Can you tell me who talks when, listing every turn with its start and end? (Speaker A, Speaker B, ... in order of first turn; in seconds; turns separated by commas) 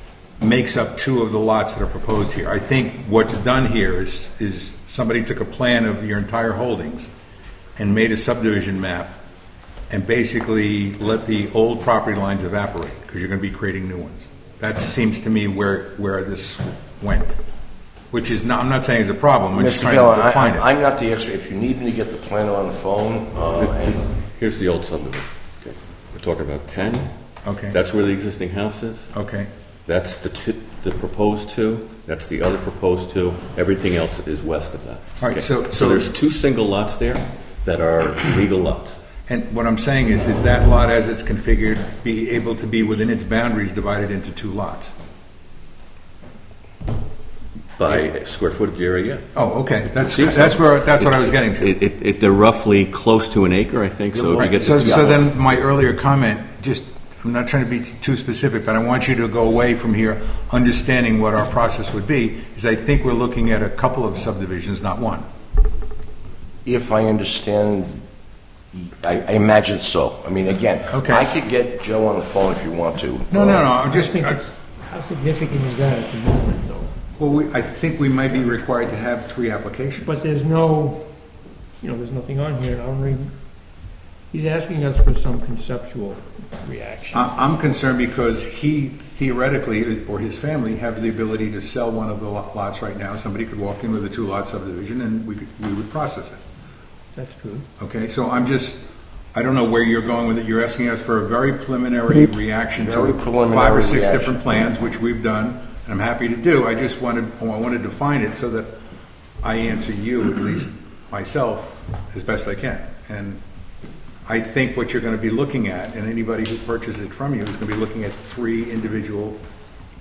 Speaker A: 0.4-7.1, Speaker A: 7.8-9.1, Speaker A: 9.9-17.4, Speaker A: 18.1-20.6, Speaker B: 19.6-24.1, Speaker C: 24.3-27.1, Speaker A: 27.4-27.8, Speaker C: 27.7-29.1, Speaker A: 29.1-29.5, Speaker C: 29.9-39.0, Speaker A: 35.2-36.1, Speaker A: 39.3-44.9, Speaker C: 47.8-49.2, Speaker A: 49.3-51.7, Speaker C: 49.9-55.2, Speaker A: 54.4-65.2, Speaker B: 66.7-68.0, Speaker B: 68.7-73.6, Speaker A: 70.9-71.3, Speaker A: 73.3-74.4, Speaker D: 73.7-76.9, Speaker A: 77.2-80.2, Speaker D: 80.0-81.0, Speaker D: 81.8-83.3, Speaker D: 84.3-87.4, Speaker A: 87.1-96.4, Speaker D: 97.2-97.7, Speaker A: 97.8-108.7, Speaker B: 102.8-104.4, Speaker A: 109.4-113.4, Speaker A: 114.3-119.4